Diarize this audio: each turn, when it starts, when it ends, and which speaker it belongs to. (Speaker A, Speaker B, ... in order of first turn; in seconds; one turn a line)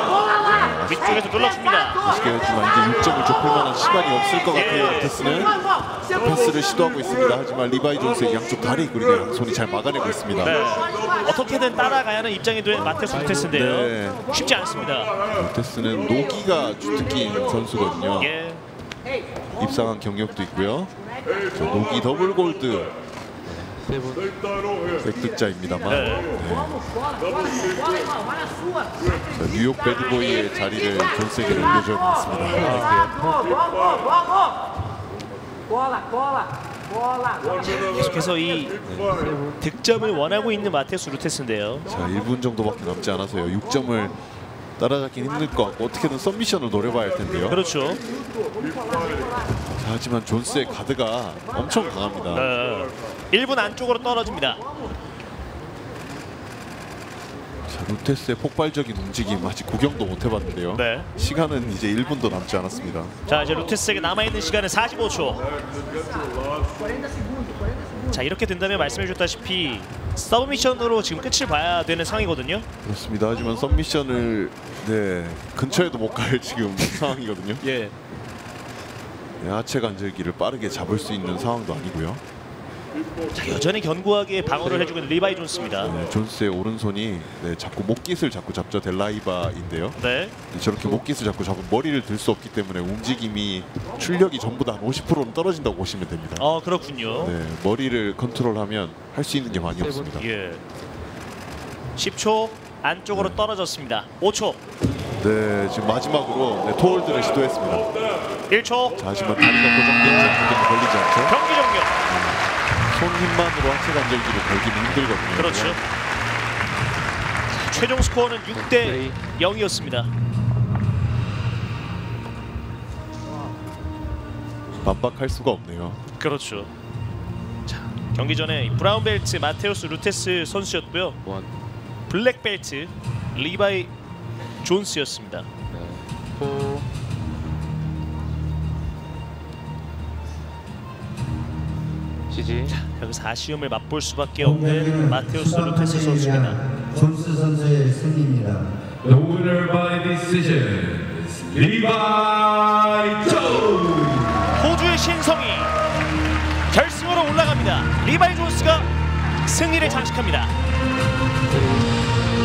Speaker A: 0.4-5.6
Speaker B: 0.9-2.0
Speaker B: 4.5-5.1
Speaker A: 6.1-10.6
Speaker B: 10.4-15.1
Speaker C: 12.9-13.4
Speaker A: 13.4-14.3
Speaker A: 15.3-18.3
Speaker B: 18.2-18.6
Speaker A: 19.6-20.9
Speaker A: 21.5-22.9
Speaker C: 23.5-24.3
Speaker A: 24.9-26.8
Speaker B: 25.9-26.3
Speaker A: 29.3-32.9
Speaker C: 32.5-33.3
Speaker B: 37.6-38.7
Speaker C: 38.8-39.6
Speaker B: 39.6-41.9
Speaker A: 41.9-44.1
Speaker A: 44.8-47.6
Speaker B: 47.5-48.0
Speaker A: 49.8-52.5
Speaker B: 52.3-54.6
Speaker A: 57.7-63.1
Speaker B: 60.7-61.1
Speaker B: 63.3-65.5
Speaker B: 68.1-72.7
Speaker A: 72.8-77.6
Speaker B: 77.6-77.9
Speaker A: 79.4-82.2
Speaker B: 83.3-85.9
Speaker A: 85.8-90.0
Speaker B: 90.0-90.3
Speaker A: 90.5-96.5
Speaker B: 96.4-97.3
Speaker A: 97.2-100.2
Speaker C: 99.6-100.1
Speaker B: 100.2-100.6
Speaker B: 102.0-104.6
Speaker A: 103.1-103.5
Speaker A: 105.2-107.9
Speaker B: 108.5-109.0
Speaker A: 109.0-111.4
Speaker B: 111.2-111.9
Speaker A: 112.1-115.8
Speaker B: 115.3-115.8
Speaker B: 117.5-120.1
Speaker C: 118.5-119.2
Speaker A: 124.8-126.0
Speaker B: 126.2-126.7
Speaker B: 127.7-131.2
Speaker C: 131.2-131.5
Speaker B: 132.1-133.9
Speaker B: 134.6-135.5
Speaker C: 135.7-136.0
Speaker C: 142.3-142.7
Speaker B: 142.7-146.6
Speaker D: 144.4-145.2
Speaker D: 145.8-148.7
Speaker C: 149.0-154.2
Speaker B: 154.5-155.7
Speaker B: 156.7-158.9
Speaker B: 159.4-160.5
Speaker A: 159.8-160.1